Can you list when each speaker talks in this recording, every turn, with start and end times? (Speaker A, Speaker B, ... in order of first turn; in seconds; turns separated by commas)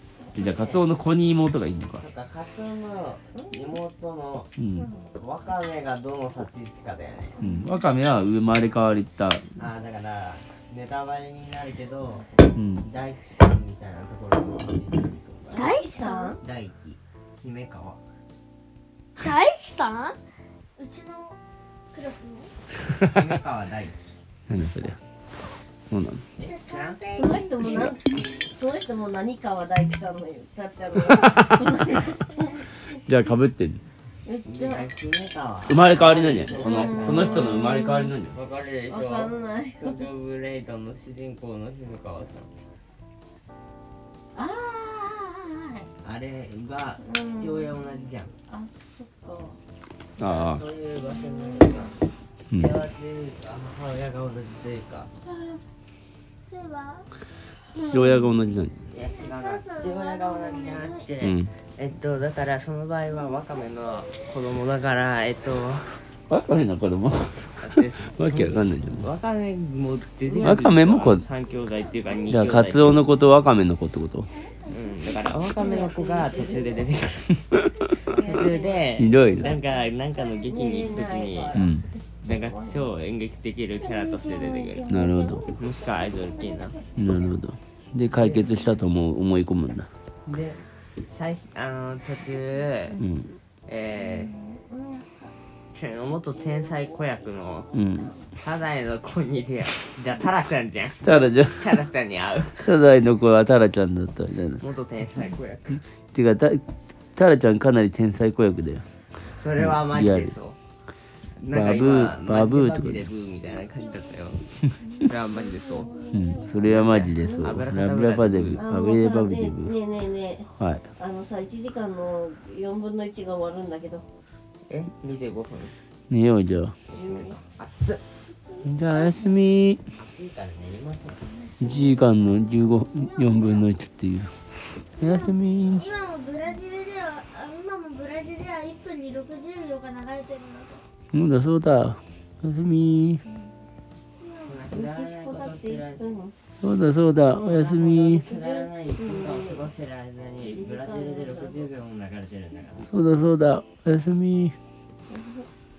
Speaker A: 0.3-2.0, Speaker B: 0.4-0.8, Speaker B: 2.0-4.5, Speaker A: 4.6-4.9, Speaker C: 4.8-5.1, Speaker B: 5.1-7.4, Speaker C: 7.4-7.7, Speaker A: 7.4-9.5, Speaker B: 9.6-15.6, Speaker A: 12.6-12.9, Speaker C: 15.5-16.4, Speaker D: 15.5-16.3, Speaker B: 16.4-18.0, Speaker D: 19.2-20.2, Speaker D: 20.8-21.4, Speaker D: 21.9-22.5, Speaker B: 23.0-24.2, Speaker A: 24.5-25.0, Speaker A: 25.9-26.2, Speaker B: 26.4-27.1, Speaker D: 26.4-28.0, Speaker C: 27.1-32.6, Speaker A: 31.2-31.5, Speaker A: 32.9-33.8, Speaker C: 34.2-34.9, Speaker B: 34.5-37.5, Speaker A: 35.7-38.4, Speaker C: 36.5-38.1, Speaker B: 38.3-42.5, Speaker C: 38.9-40.0, Speaker C: 44.3-45.9, Speaker B: 46.0-48.4, Speaker C: 47.0-47.8, Speaker C: 48.5-49.6, Speaker B: 50.2-55.1, Speaker A: 50.2-50.6, Speaker C: 55.3-55.6, Speaker D: 56.4-57.1, Speaker A: 57.7-58.8, Speaker D: 57.7-61.1, Speaker B: 58.9-66.0, Speaker A: 61.2-61.5, Speaker A: 66.3-69.1, Speaker B: 67.6-73.0, Speaker A: 70.3-71.3, Speaker D: 72.1-72.4, Speaker A: 72.3-74.3, Speaker D: 74.3-76.3, Speaker B: 74.7-77.4, Speaker C: 75.3-77.0, Speaker A: 77.5-78.0, Speaker C: 78.0-82.9, Speaker B: 78.1-81.6, Speaker A: 79.0-79.5, Speaker A: 81.5-81.8, Speaker B: 82.2-84.8, Speaker D: 83.8-87.0, Speaker A: 84.9-85.4, Speaker B: 85.6-86.8, Speaker A: 87.0-89.9, Speaker B: 88.1-88.5, Speaker B: 90.3-93.0, Speaker A: 93.0-93.3, Speaker B: 93.7-94.3, Speaker C: 94.0-95.3, Speaker B: 95.7-97.7, Speaker C: 96.4-97.2, Speaker A: 97.7-98.1, Speaker B: 98.4-102.7, Speaker A: 101.0-101.7, Speaker A: 102.6-104.6, Speaker B: 104.6-105.8, Speaker A: 106.1-106.6, Speaker A: 107.2-108.8, Speaker B: 109.3-110.6, Speaker A: 109.6-110.4, Speaker B: 111.4-116.0, Speaker A: 111.5-113.1, Speaker D: 113.4-116.8, Speaker A: 116.1-119.8, Speaker B: 116.6-118.6, Speaker C: 118.5-124.0, Speaker A: 120.6-120.9, Speaker B: 124.7-125.7, Speaker A: 126.1-126.8, Speaker C: 126.9-127.4, Speaker B: 126.9-128.0, Speaker A: 128.7-129.8, Speaker B: 130.0-131.3, Speaker A: 131.6-134.3, Speaker D: 131.6-132.1, Speaker D: 132.9-133.7, Speaker A: 135.0-135.9, Speaker D: 135.0-140.8, Speaker A: 141.1-143.2, Speaker D: 144.2-144.5, Speaker B: 144.4-146.1, Speaker C: 144.7-146.3, Speaker A: 146.6-148.2, Speaker B: 147.3-152.9, Speaker C: 148.3-149.7, Speaker C: 150.5-151.7, Speaker A: 152.8-154.6, Speaker C: 155.1-155.5